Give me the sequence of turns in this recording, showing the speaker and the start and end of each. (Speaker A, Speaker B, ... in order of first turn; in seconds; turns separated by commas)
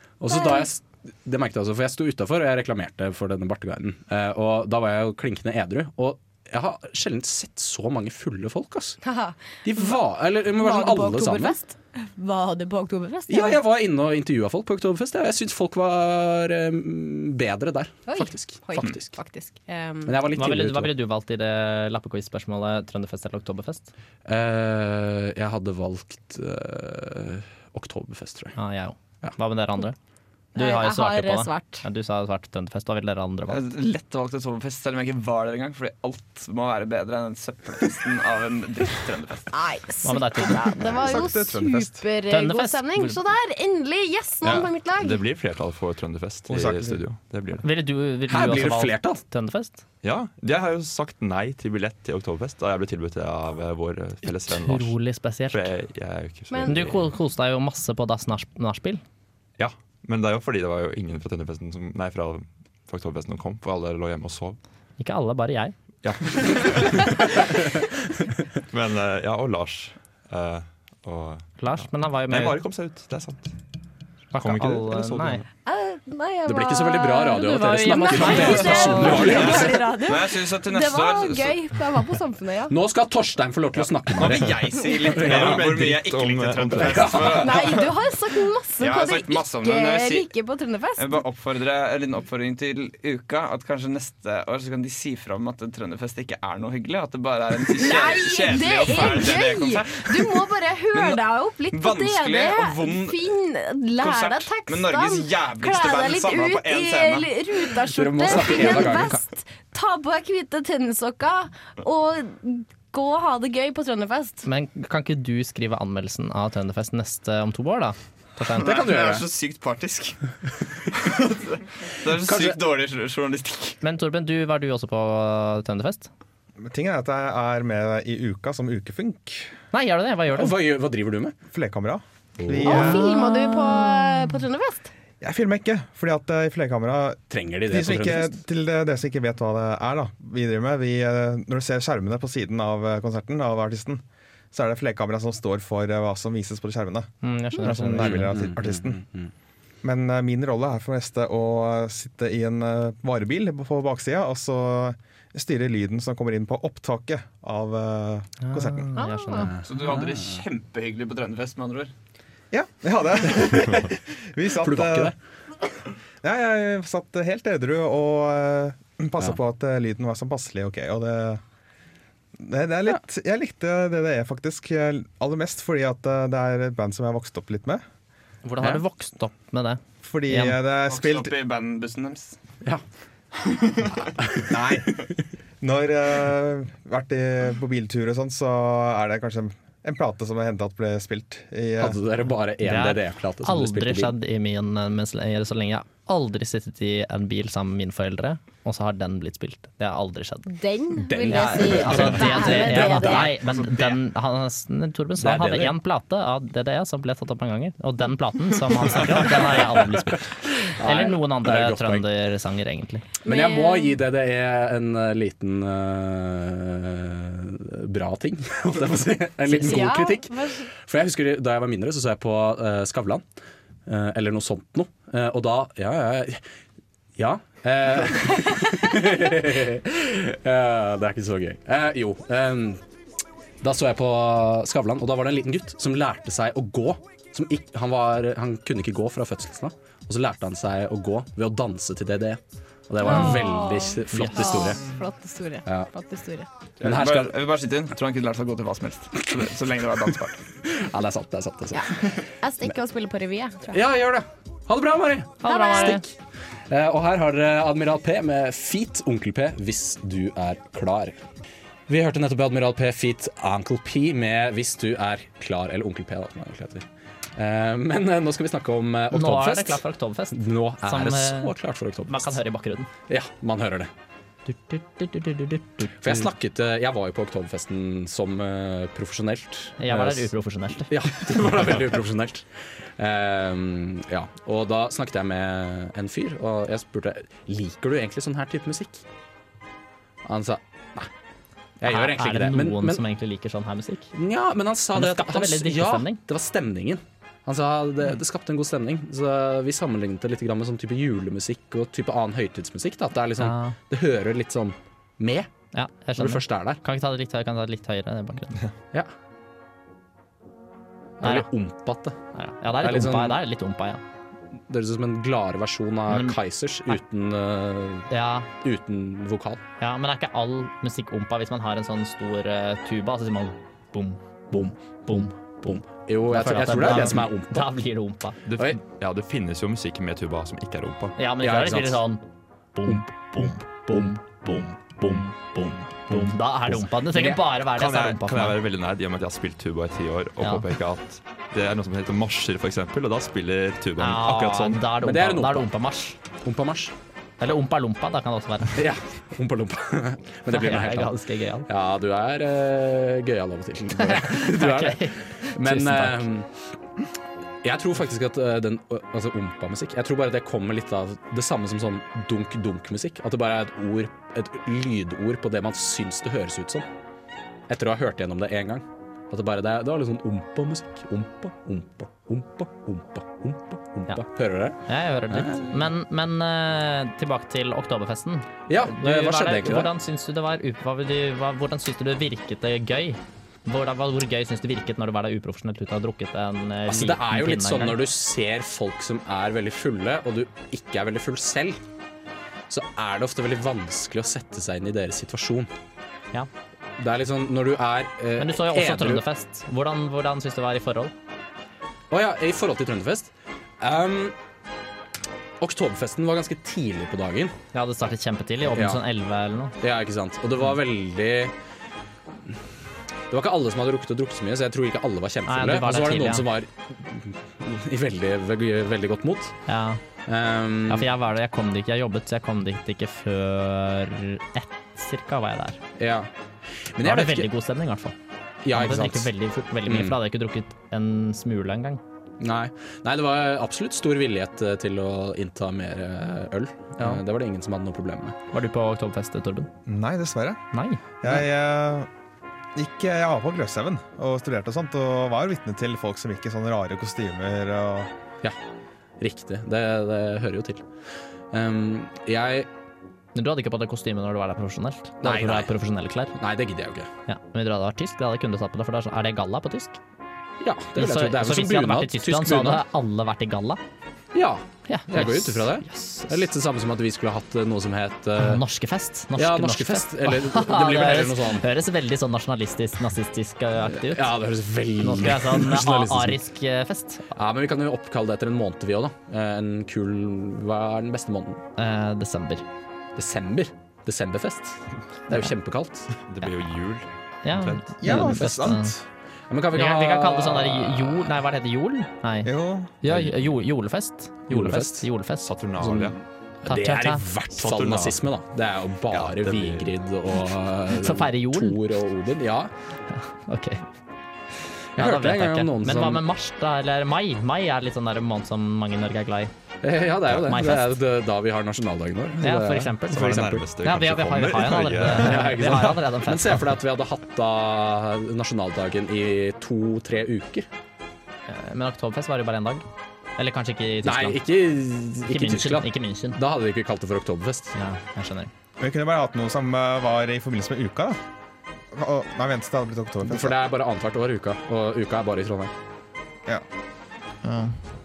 Speaker A: 0.2-9.0, Speaker B: 0.3-0.7, Speaker B: 9.0-9.9, Speaker A: 9.6-11.6, Speaker B: 10.5-13.6, Speaker A: 13.3-19.2, Speaker B: 18.1-20.1, Speaker A: 20.1-20.9, Speaker C: 20.4-23.9, Speaker A: 24.2-28.5, Speaker C: 28.6-29.9, Speaker B: 30.6-31.8, Speaker C: 30.6-33.6, Speaker D: 33.5-39.5, Speaker B: 39.5-45.2, Speaker C: 40.0-40.9, Speaker E: 41.0-42.0, Speaker C: 42.3-43.2, Speaker F: 44.4-47.6, Speaker E: 46.5-47.0, Speaker C: 47.6-49.8, Speaker A: 48.3-49.2, Speaker F: 50.0-54.9, Speaker C: 54.5-55.7, Speaker F: 55.5-56.9, Speaker B: 56.5-56.8, Speaker C: 56.6-59.0, Speaker F: 59.6-64.6, Speaker C: 65.0-65.7, Speaker F: 66.0-67.2, Speaker F: 68.7-73.5, Speaker C: 71.6-72.6, Speaker C: 74.3-75.4, Speaker F: 74.3-75.4, Speaker B: 75.6-82.7, Speaker A: 76.5-80.0, Speaker C: 77.4-79.6, Speaker D: 79.2-81.6, Speaker A: 82.7-85.9, Speaker D: 83.8-87.9, Speaker F: 85.2-87.4, Speaker A: 86.7-87.7, Speaker B: 87.4-91.2, Speaker D: 88.8-90.3, Speaker D: 91.0-103.3, Speaker B: 97.7-114.4, Speaker D: 104.0-107.4, Speaker A: 107.9-109.2, Speaker C: 114.4-118.7, Speaker D: 118.6-120.2, Speaker A: 118.6-119.2, Speaker D: 120.9-123.8, Speaker A: 122.2-122.6, Speaker C: 123.8-126.1, Speaker E: 126.6-129.5, Speaker C: 129.7-130.5, Speaker A: 130.3-131.3, Speaker E: 131.5-133.1, Speaker A: 132.4-132.9, Speaker B: 132.6-134.9, Speaker E: 135.2-149.0, Speaker A: 137.3-138.4, Speaker C: 147.2-148.3, Speaker A: 147.7-149.3, Speaker E: 149.8-158.9, Speaker C: 158.4-159.5, Speaker B: 158.9-159.5, Speaker D: 159.6-161.9, Speaker A: 159.9-160.2, Speaker E: 162.5-165.1, Speaker A: 164.6-165.1, Speaker E: 166.2-171.4, Speaker E: 172.4-177.8, Speaker C: 178.4-180.6, Speaker E: 180.0-181.3, Speaker D: 180.8-182.4, Speaker D: 183.4-184.0, Speaker A: 184.2-184.5, Speaker E: 184.5-184.9, Speaker E: 185.6-192.0, Speaker A: 191.8-194.1, Speaker C: 192.6-200.5, Speaker B: 200.5-203.3, Speaker A: 201.0-203.4, Speaker C: 201.3-213.1, Speaker D: 203.6-203.9, Speaker A: 205.2-205.7, Speaker A: 208.8-212.1, Speaker B: 213.2-214.0, Speaker A: 213.2-223.2, Speaker B: 219.5-220.7, Speaker A: 223.9-226.4, Speaker A: 227.2-232.8, Speaker A: 233.6-244.8, Speaker B: 243.0-246.5, Speaker C: 243.1-243.4, Speaker C: 244.1-244.5, Speaker D: 246.8-250.4, Speaker A: 246.8-247.4, Speaker A: 250.6-251.8, Speaker B: 251.7-253.8, Speaker A: 253.7-256.1, Speaker C: 255.4-256.0, Speaker B: 255.4-256.0, Speaker A: 256.7-261.2, Speaker A: 261.9-266.8, Speaker A: 267.4-269.8, Speaker C: 269.1-271.5, Speaker A: 270.3-272.4, Speaker C: 272.1-272.9, Speaker A: 273.1-273.9, Speaker C: 274.5-276.3, Speaker A: 276.0-280.3, Speaker C: 279.8-280.9, Speaker A: 280.9-282.4, Speaker A: 283.0-289.0, Speaker A: 290.2-291.1, Speaker A: 291.8-293.0, Speaker C: 291.8-294.1, Speaker A: 294.1-305.5, Speaker C: 294.9-296.2, Speaker C: 303.4-303.7, Speaker C: 305.7-308.6, Speaker A: 306.1-306.8, Speaker A: 311.2-312.1, Speaker C: 311.2-311.5, Speaker C: 312.3-314.0, Speaker A: 312.8-313.4, Speaker A: 314.7-318.1, Speaker C: 316.1-316.4, Speaker C: 318.1-318.5, Speaker A: 318.6-319.6, Speaker C: 319.8-324.2, Speaker A: 324.5-327.7, Speaker C: 326.3-328.4, Speaker F: 328.4-331.2, Speaker C: 331.2-332.2, Speaker A: 331.4-332.0, Speaker C: 332.8-334.2, Speaker A: 332.9-337.4, Speaker C: 336.1-338.6, Speaker F: 337.6-344.9, Speaker C: 340.4-340.6, Speaker C: 344.0-346.2, Speaker A: 345.0-345.7, Speaker A: 346.4-346.9, Speaker C: 347.4-348.8, Speaker A: 348.8-356.5, Speaker C: 350.5-351.7, Speaker C: 354.0-356.2, Speaker A: 357.6-366.8, Speaker A: 367.7-375.9, Speaker C: 374.9-388.0, Speaker A: 378.7-379.9, Speaker A: 386.9-391.8, Speaker A: 392.7-395.7, Speaker A: 397.0-399.2, Speaker C: 398.4-401.1, Speaker A: 402.1-404.3, Speaker A: 405.6-407.6, Speaker C: 407.7-409.7, Speaker A: 408.7-409.0, Speaker A: 409.8-411.5, Speaker A: 413.3-419.6, Speaker C: 415.5-416.4, Speaker C: 419.7-420.0, Speaker A: 420.3-421.1, Speaker C: 420.9-425.8, Speaker A: 426.0-426.3, Speaker A: 426.9-427.5, Speaker C: 427.0-428.1, Speaker A: 428.6-429.3, Speaker C: 428.7-432.0, Speaker A: 429.8-430.1, Speaker A: 432.4-438.4, Speaker C: 438.5-439.7, Speaker E: 439.9-440.6, Speaker C: 440.7-441.3, Speaker E: 441.2-442.1, Speaker E: 442.8-448.1, Speaker A: 449.2-450.8, Speaker A: 451.5-452.7, Speaker C: 453.3-456.4, Speaker A: 455.2-455.7, Speaker A: 456.3-457.1, Speaker C: 457.3-460.0, Speaker A: 460.6-462.8, Speaker C: 460.9-463.8, Speaker A: 464.3-468.6, Speaker C: 464.9-466.4, Speaker C: 468.4-474.3, Speaker A: 469.4-471.6, Speaker A: 473.9-476.4, Speaker C: 475.0-477.3, Speaker A: 477.3-481.6, Speaker C: 481.8-482.6, Speaker A: 483.1-486.1, Speaker F: 486.2-487.9, Speaker C: 487.4-488.9, Speaker E: 488.0-489.0, Speaker A: 488.0-488.7, Speaker A: 489.5-491.3, Speaker C: 489.7-495.5, Speaker E: 492.4-493.0, Speaker A: 494.5-495.1, Speaker F: 495.4-496.2, Speaker A: 495.8-502.7, Speaker C: 496.6-497.2, Speaker F: 497.6-498.2, Speaker F: 499.1-499.9, Speaker C: 500.9-501.8, Speaker C: 503.1-503.8, Speaker A: 505.0-506.2, Speaker C: 505.0-509.5, Speaker A: 509.8-513.6, Speaker C: 510.3-511.0, Speaker C: 512.4-516.6, Speaker F: 513.1-515.5, Speaker A: 515.1-520.7, Speaker C: 521.5-522.8, Speaker C: 523.4-524.4, Speaker A: 524.0-527.7, Speaker C: 525.3-526.4, Speaker C: 527.7-528.5, Speaker E: 528.8-531.2, Speaker E: 531.9-533.5, Speaker A: 533.2-535.7, Speaker C: 537.4-537.8